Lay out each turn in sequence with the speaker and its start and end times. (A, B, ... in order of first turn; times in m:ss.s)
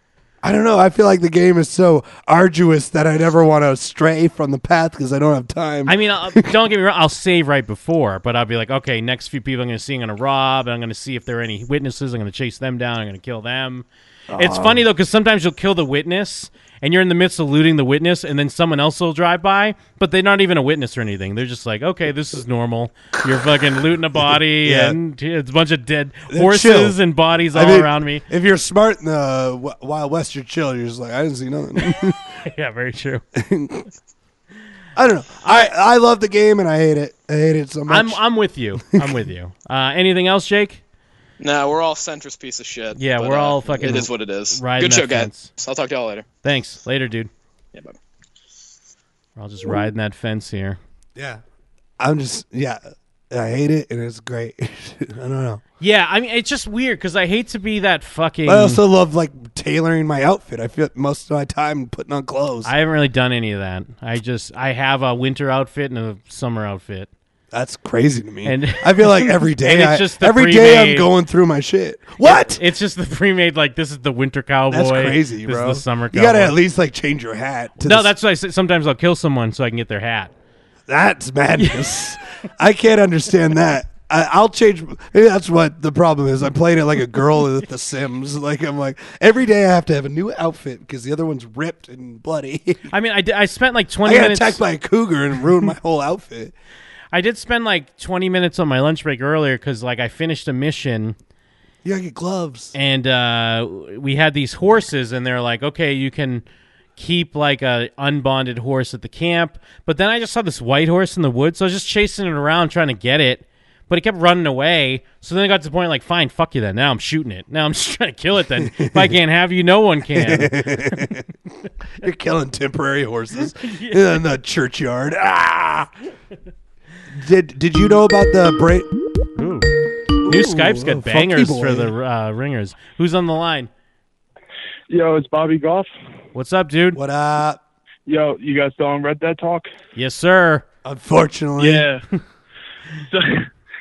0:00.4-0:06.5 A
0:05.9-0:28.2 B
0:14.3-0:14.8 A
0:24.1-0:25.0 A
0:26.3-0:27.0 A
0:27.5-0:32.2 A
0:31.8-0:33.2 B
0:33.4-0:33.9 A
0:35.0-0:38.2 A
0:35.4-0:35.7 B
0:37.9-0:40.8 B
0:38.8-0:39.2 A
0:41.4-0:46.2 C
0:43.0-0:45.5 B
0:46.4-0:47.3 B
0:49.4-0:50.8 B
0:51.2-0:51.4 A
0:52.0-0:52.8 A
0:53.3-0:55.6 A
0:55.8-0:58.8 B
0:58.4-1:02.7 A
1:02.6-1:07.1 B
1:07.5-1:12.6 A
1:08.4-1:11.1 B
1:12.2-1:16.6 B
1:14.7-1:18.1 A
1:17.8-1:20.3 B
1:20.9-1:32.9 A
1:21.6-1:22.0 B
1:32.9-1:34.6 B
1:34.0-1:36.5 A
1:37.1-1:41.2 B
1:41.8-1:42.7 A
1:42.7-1:46.4 B
1:47.0-2:01.1 B
1:58.6-1:59.2 A
2:00.1-2:01.3 A
2:02.0-2:05.9 A
2:03.6-2:04.0 B
2:07.1-2:08.9 A
2:09.4-2:09.7 B
2:10.2-2:11.9 A
2:10.2-2:13.7 B
2:14.9-2:15.9 D
2:16.3-2:17.0 B
2:16.9-2:17.6 A
2:18.0-2:19.7 D
2:19.9-2:20.6 B
2:20.8-2:21.9 A
2:21.6-2:22.0 D
2:23.1-2:23.5 D